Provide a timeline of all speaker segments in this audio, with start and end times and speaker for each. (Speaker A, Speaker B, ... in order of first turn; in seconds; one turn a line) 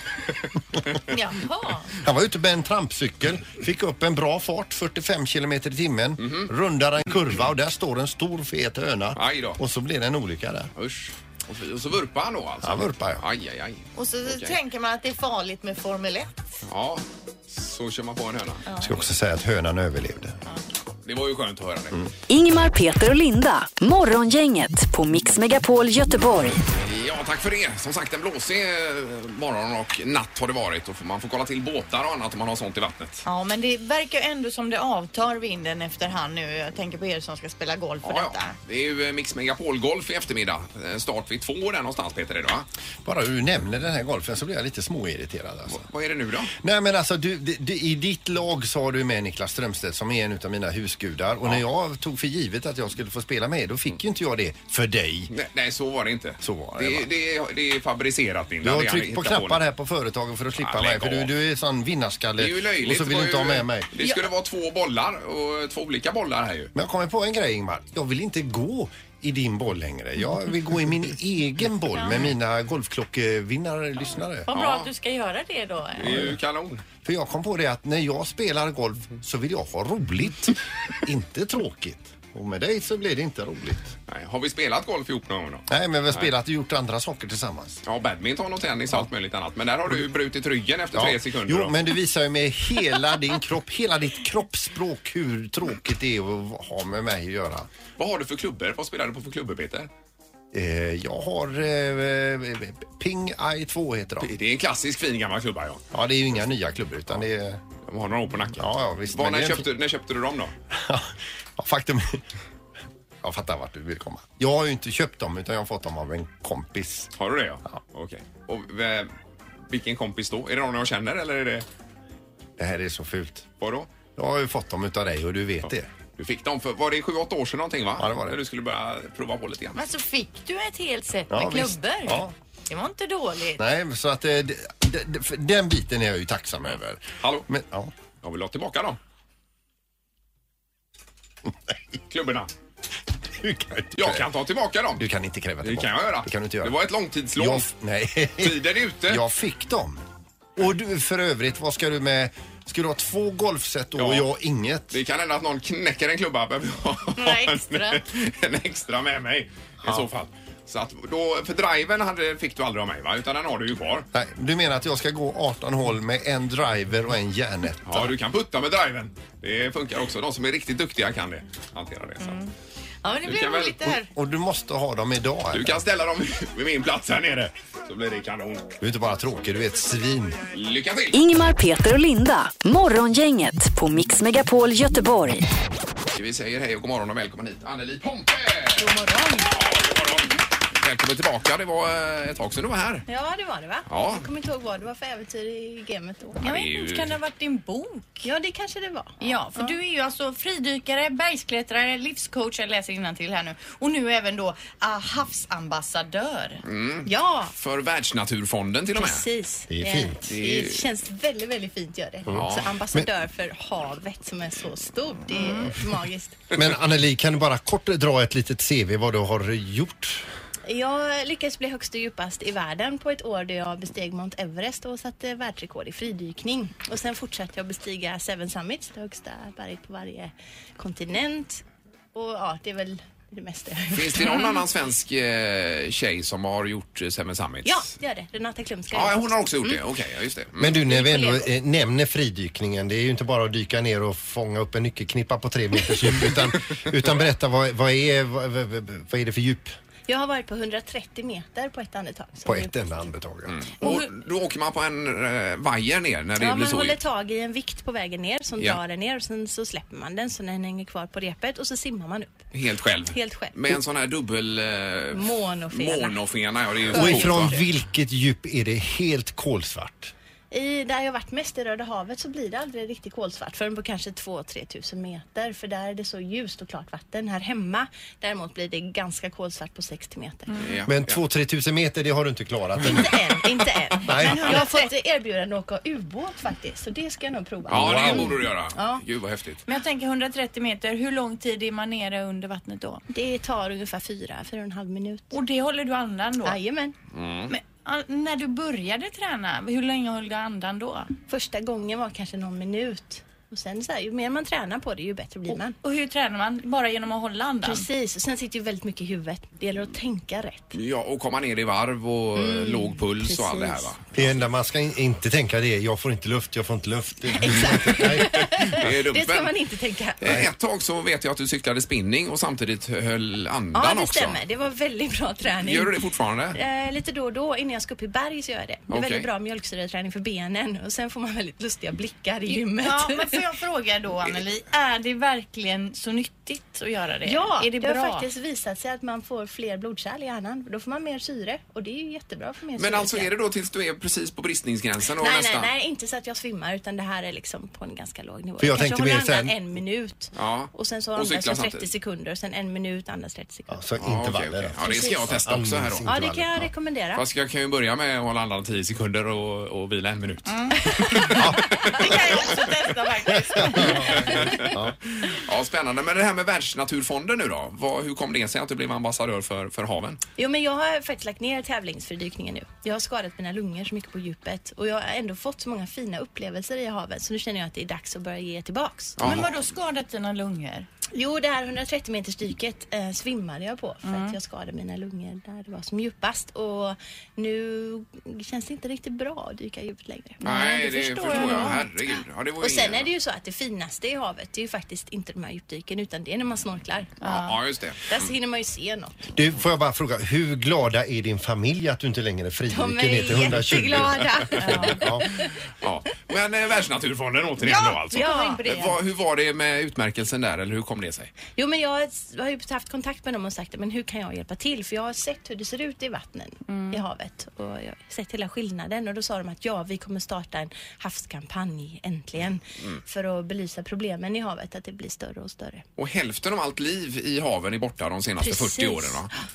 Speaker A: 1.1-1.9
Speaker B: 2.0-10.7
Speaker C: 6.2-6.5
Speaker C: 9.2-9.6
Speaker C: 10.8-14.6
Speaker B: 12.6-13.2
Speaker A: 13.9-16.3
Speaker C: 16.7-18.6
Speaker A: 18.6-18.9
Speaker B: 18.8-20.4
Speaker C: 21.0-22.1
Speaker D: 22.3-26.6
Speaker C: 26.8-33.2
Speaker A: 33.2-38.5
Speaker C: 38.0-42.7
Speaker B: 43.0-45.9
Speaker C: 45.7-46.5
Speaker B: 46.5-55.3
Speaker C: 55.3-59.6
Speaker B: 56.4-57.1
Speaker B: 58.6-63.9
Speaker C: 60.6-61.3
Speaker C: 62.4-66.7
Speaker B: 66.7-74.5
Speaker A: 71.9-72.2
Speaker A: 74.5-76.3
Speaker C: 74.5-74.9
Speaker C: 75.9-76.8
Speaker B: 76.0-76.3
Speaker B: 77.0-83.9
Speaker C: 84.1-86.3
Speaker B: 85.7-87.8
Speaker C: 87.8-91.7
Speaker B: 90.9-97.7
Speaker C: 98.0-99.9
Speaker B: 100.5-104.3
Speaker C: 104.2-105.8
Speaker B: 105.9-107.6
Speaker C: 107.8-110.5
Speaker B: 108.5-109.7
Speaker B: 110.7-112.2
Speaker B: 113.2-117.1
Speaker C: 117.2-119.1
Speaker C: 119.7-121.7
Speaker B: 122.6-123.5
Speaker C: 123.6-123.9
Speaker B: 124.2-125.9
Speaker C: 126.2-129.8
Speaker B: 128.0-128.4
Speaker A: 129.8-133.6
Speaker B: 131.3-132.3
Speaker B: 133.6-137.9
Speaker C: 137.2-137.4
Speaker C: 138.2-139.0
Speaker C: 142.1-142.5
Speaker B: 143.3-144.3
Speaker C: 143.9-145.0
Speaker B: 144.9-146.8
Speaker C: 145.6-147.7
Speaker B: 147.3-150.0
Speaker C: 148.4-149.2
Speaker B: 150.6-155.0
Speaker C: 154.0-154.2
Speaker C: 154.9-164.1
Speaker A: 157.2-158.0
Speaker B: 164.1-168.1
Speaker C: 167.8-172.4
Speaker A: 172.2-172.5
Speaker A: 173.0-174.1
Speaker C: 173.2-173.9
Speaker B: 174.1-175.8
Speaker C: 175.5-178.7
Speaker B: 178.8-180.4
Speaker C: 180.5-181.2
Speaker D: 181.1-185.4
Speaker C: 186.1-193.0
Speaker E: 188.8-189.5
Speaker E: 193.1-196.4
Speaker C: 193.9-194.2
Speaker C: 196.4-197.2
Speaker A: 196.4-198.3
Speaker E: 198.2-199.7
Speaker A: 199.2-206.6
Speaker C: 206.6-209.2
Speaker E: 207.0-207.5
Speaker E: 208.9-216.4
Speaker B: 209.7-210.2
Speaker C: 210.2-210.8
Speaker B: 212.3-213.1
Speaker C: 212.3-212.7
Speaker A: 215.3-215.8
Speaker B: 216.5-220.2
Speaker E: 220.7-234.4
Speaker C: 233.9-237.9
Speaker E: 237.6-239.8
Speaker C: 238.9-240.8
Speaker B: 240.6-249.7
Speaker E: 240.9-241.5
Speaker E: 250.1-253.1
Speaker B: 252.4-253.6
Speaker C: 253.5-257.0
Speaker E: 256.4-262.5
Speaker C: 262.5-267.6
Speaker E: 263.1-263.8
Speaker E: 265.1-266.2
Speaker E: 266.9-267.6
Speaker B: 266.9-270.1
Speaker E: 270.5-280.6
Speaker C: 280.6-281.2
Speaker B: 280.9-283.4
Speaker E: 282.8-289.0
Speaker B: 284.0-284.6
Speaker A: 284.2-284.9
Speaker B: 287.7-288.4
Speaker C: 287.7-289.6
Speaker A: 289.7-293.0
Speaker E: 293.1-295.4
Speaker A: 295.3-296.6
Speaker E: 296.4-296.9
Speaker C: 297.1-297.5
Speaker A: 297.5-301.1
Speaker E: 301.3-305.8
Speaker A: 305.5-307.9
Speaker E: 307.6-310.8
Speaker C: 310.7-314.4
Speaker E: 312.4-313.9
Speaker B: 314.1-318.8
Speaker E: 317.4-320.4
Speaker C: 318.6-319.5
Speaker C: 320.2-324.4
Speaker E: 323.7-325.9
Speaker C: 325.6-326.6
Speaker E: 326.5-333.4
Speaker C: 328.9-329.3
Speaker A: 332.5-338.3
Speaker E: 337.2-343.3
Speaker C: 342.8-345.7
Speaker E: 345.2-353.8
Speaker B: 348.6-349.6
Speaker C: 350.3-351.9
Speaker B: 353.7-356.7
Speaker C: 354.0-356.1
Speaker E: 354.8-355.2
Speaker E: 356.1-357.2
Speaker C: 357.1-362.5
Speaker A: 360.5-364.4
Speaker B: 361.3-362.1
Speaker B: 363.6-364.9
Speaker C: 363.8-370.2
Speaker E: 370.4-379.2
Speaker C: 379.2-379.5
Speaker A: 379.2-380.9
Speaker E: 381.1-390.4
Speaker A: 384.0-384.4
Speaker A: 390.4-391.8
Speaker C: 390.4-393.1
Speaker E: 391.2-391.9
Speaker E: 392.6-397.2
Speaker A: 397.2-397.6
Speaker C: 397.2-398.2
Speaker E: 398.1-399.3
Speaker B: 399.3-405.3
Speaker E: 402.7-405.4
Speaker A: 404.6-405.1
Speaker C: 405.8-411.3
Speaker A: 407.6-408.9
Speaker E: 408.1-408.7
Speaker E: 411.5-425.8
Speaker C: 426.0-429.3
Speaker E: 428.4-429.3